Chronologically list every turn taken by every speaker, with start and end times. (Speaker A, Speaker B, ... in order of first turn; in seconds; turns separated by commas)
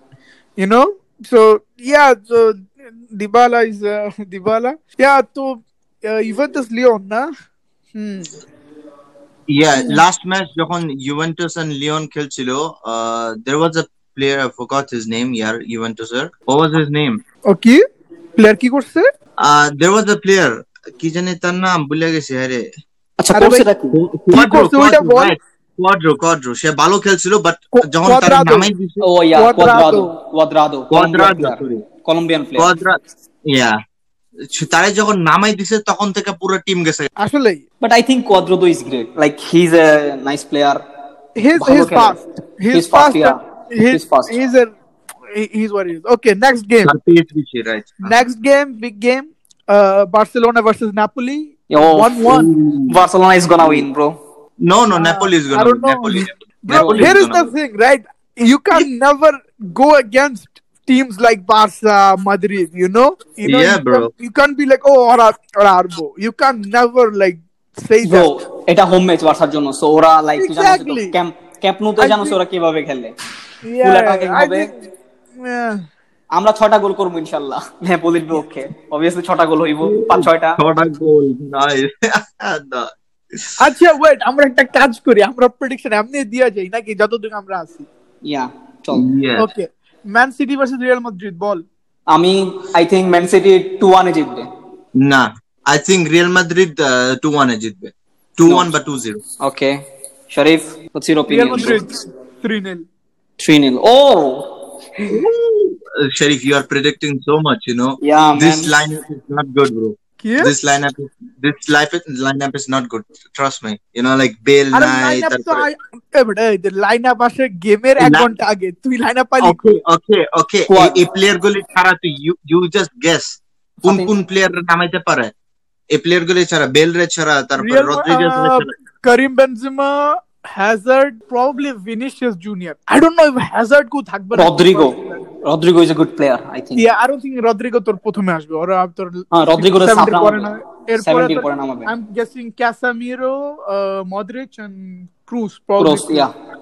Speaker A: 0.6-7.3, Speaker A: 7.9-8.3, Speaker B: 9.5-17.2, Speaker A: 17.4-17.8, Speaker A: 18.4-19.1, Speaker B: 19.4-22.7, Speaker C: 23.2-23.9, Speaker A: 23.3-23.6, Speaker B: 23.9-29.1, Speaker A: 24.3-25.4, Speaker A: 27.7-28.7, Speaker C: 29.0-32.7, Speaker A: 29.3-30.1, Speaker B: 30.9-31.8, Speaker B: 32.6-33.8, Speaker B: 34.5-37.1, Speaker A: 37.2-37.6, Speaker C: 37.8-40.8, Speaker A: 41.4-44.7, Speaker C: 41.5-42.2, Speaker C: 42.7-43.4, Speaker C: 43.9-44.4, Speaker A: 45.3-46.9, Speaker B: 46.8-48.1, Speaker A: 48.0-52.5, Speaker C: 51.7-54.1, Speaker B: 52.3-53.0, Speaker B: 54.6-57.5, Speaker A: 55.0-68.3, Speaker C: 56.7-57.1, Speaker B: 63.4-64.1, Speaker C: 68.0-73.1, Speaker A: 70.4-71.1, Speaker A: 72.0-72.4, Speaker A: 73.6-74.7, Speaker C: 73.8-74.7, Speaker A: 75.3-75.8, Speaker C: 76.3-80.6, Speaker B: 79.8-83.5, Speaker A: 83.6-87.9, Speaker C: 88.2-89.1, Speaker B: 88.9-89.5, Speaker A: 89.4-91.6, Speaker C: 92.1-94.5, Speaker B: 95.0-99.2, Speaker C: 99.4-99.8, Speaker C: 100.3-101.8, Speaker A: 101.3-102.8, Speaker C: 103.4-105.2, Speaker B: 105.1-115.7, Speaker C: 108.0-108.7, Speaker A: 110.2-110.5, Speaker A: 114.7-119.6, Speaker B: 118.0-118.3, Speaker B: 119.4-125.3, Speaker C: 120.7-121.1, Speaker C: 123.8-124.1, Speaker B: 125.9-128.7, Speaker A: 127.6-135.3, Speaker C: 134.3-136.8, Speaker A: 136.8-146.3, Speaker C: 139.3-141.9, Speaker C: 145.8-146.3